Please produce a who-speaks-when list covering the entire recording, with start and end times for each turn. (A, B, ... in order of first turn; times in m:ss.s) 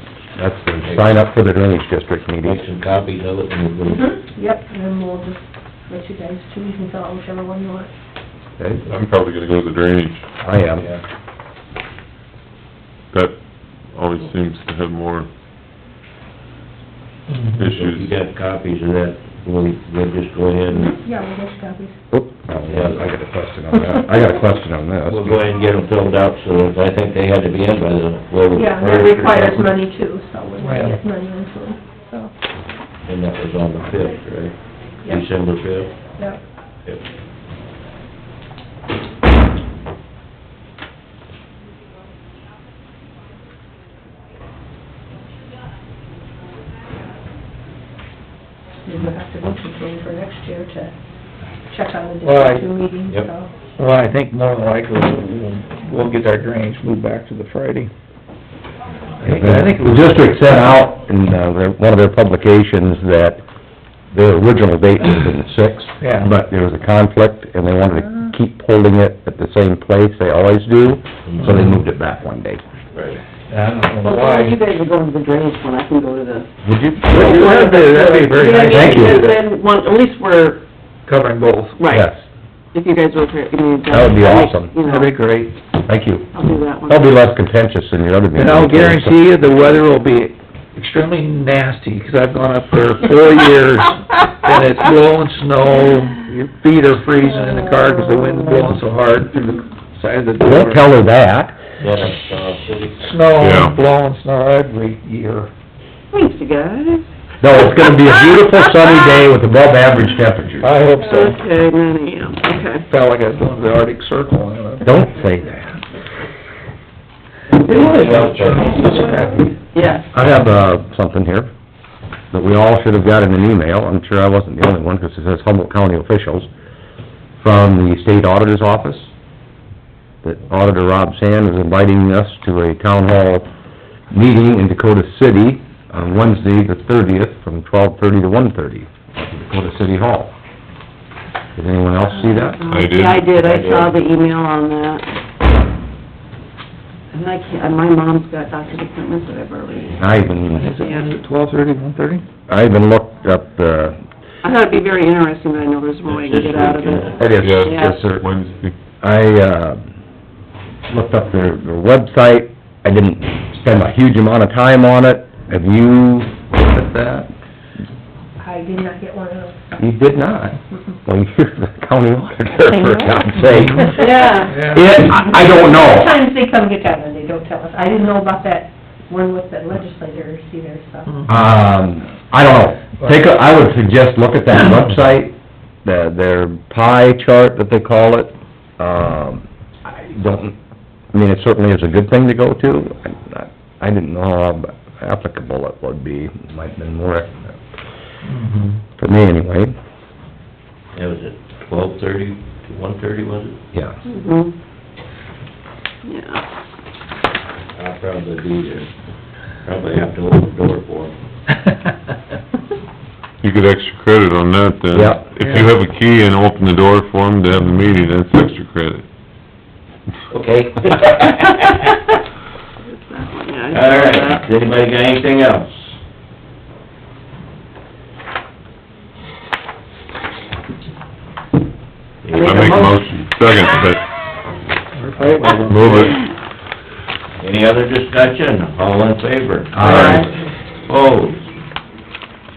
0:00.4-0:02.6 A
0:00.8-0:01.2 B
0:02.4-0:04.0 B
0:03.8-0:07.9 C
0:08.6-0:08.8 A
0:08.8-0:10.2 D
0:10.4-0:10.9 A
0:13.1-0:13.4 D
0:13.9-0:15.3 D
0:17.3-0:17.6 E
0:17.5-0:18.1 D
0:17.7-0:20.9 B
0:20.7-0:22.0 C
0:22.1-0:25.4 A
0:22.6-0:23.1 B
0:23.7-0:24.0 C
0:25.1-0:29.8 B
0:28.5-0:32.3 C
0:30.6-0:31.0 E
0:33.0-0:35.9 B
0:35.0-0:35.3 C
0:48.8-0:50.9 C
0:51.7-0:53.5 C
0:52.2-0:52.7 E
0:53.8-0:57.9 E
0:59.2-1:00.1 E
0:59.2-1:03.4 A
1:04.1-1:12.6 A
1:06.0-1:06.3 E
1:11.3-1:11.6 B
1:12.9-1:13.2 B
1:13.5-1:14.6 E
1:14.0-1:16.5 F
1:16.6-1:17.5 A
1:17.1-1:20.6 F
1:17.1-1:19.4 E
1:18.7-1:19.3 A
1:21.0-1:21.8 E
1:21.8-1:22.1 F
1:21.9-1:22.3 A
1:22.7-1:25.1 F
1:23.9-1:24.7 A
1:24.9-1:25.5 E
1:25.8-1:26.3 A
1:26.3-1:27.3 F
1:26.9-1:29.2 A
1:28.3-1:40.8 E
1:37.4-1:38.8 F
1:40.4-1:41.6 A
1:41.8-1:43.1 B
1:43.0-1:45.5 E
1:43.4-1:43.8 D
1:46.1-1:47.1 F
1:47.4-1:50.7 A
1:47.6-1:49.2 F
1:50.6-1:51.4 E
1:51.0-1:52.9 F
1:52.9-1:54.9 E
1:54.8-1:55.8 A
1:57.6-2:00.1 F
1:57.6-1:59.2 B
1:57.7-1:59.6 E
2:00.1-2:01.5 A
2:02.3-2:06.5 A
2:07.4-2:09.1 A
2:10.2-2:13.5 A
2:14.1-2:20.3 A
2:21.6-2:22.6 A
2:22.0-2:25.1 F
2:22.7-2:23.3 D
2:23.4-2:23.9 B
2:27.1-2:30.0 F
2:29.9-2:30.7 A
2:30.6-2:32.2 E
2:30.8-2:31.1 F
2:32.5-2:34.0 A
2:34.4-2:38.0 F
2:36.0-2:37.3 B
2:37.2-2:38.2 A
2:37.4-2:38.7 D
2:39.0-2:39.8 A
2:40.9-2:47.3 A
2:48.4-2:49.8 C
2:49.8-2:54.2 A
2:53.9-2:54.6 F
2:54.5-2:54.8 E
2:54.7-2:56.1 A
2:55.1-3:01.3 C
3:01.3-3:10.6 A
3:11.1-3:17.6 A
3:18.2-3:18.8 E
3:19.0-3:19.7 A
3:20.9-3:23.6 B
3:23.7-3:24.0 A
3:24.1-3:24.5 F
3:26.0-3:26.4 F
3:27.7-3:28.9 B
3:29.6-3:31.1 B
3:33.4-3:39.0 D
3:34.9-3:35.2 A
3:40.3-3:41.8 B
3:42.8-3:44.5 F
3:43.7-3:45.9 B
3:52.2-3:53.0 B
3:52.3-3:52.9 F
3:52.4-3:54.0 D
3:54.9-3:56.1 E
3:55.6-3:56.2 D
3:57.4-4:00.2 B
3:59.7-4:00.3 A
3:59.8-4:00.4 F
4:00.8-4:01.5 B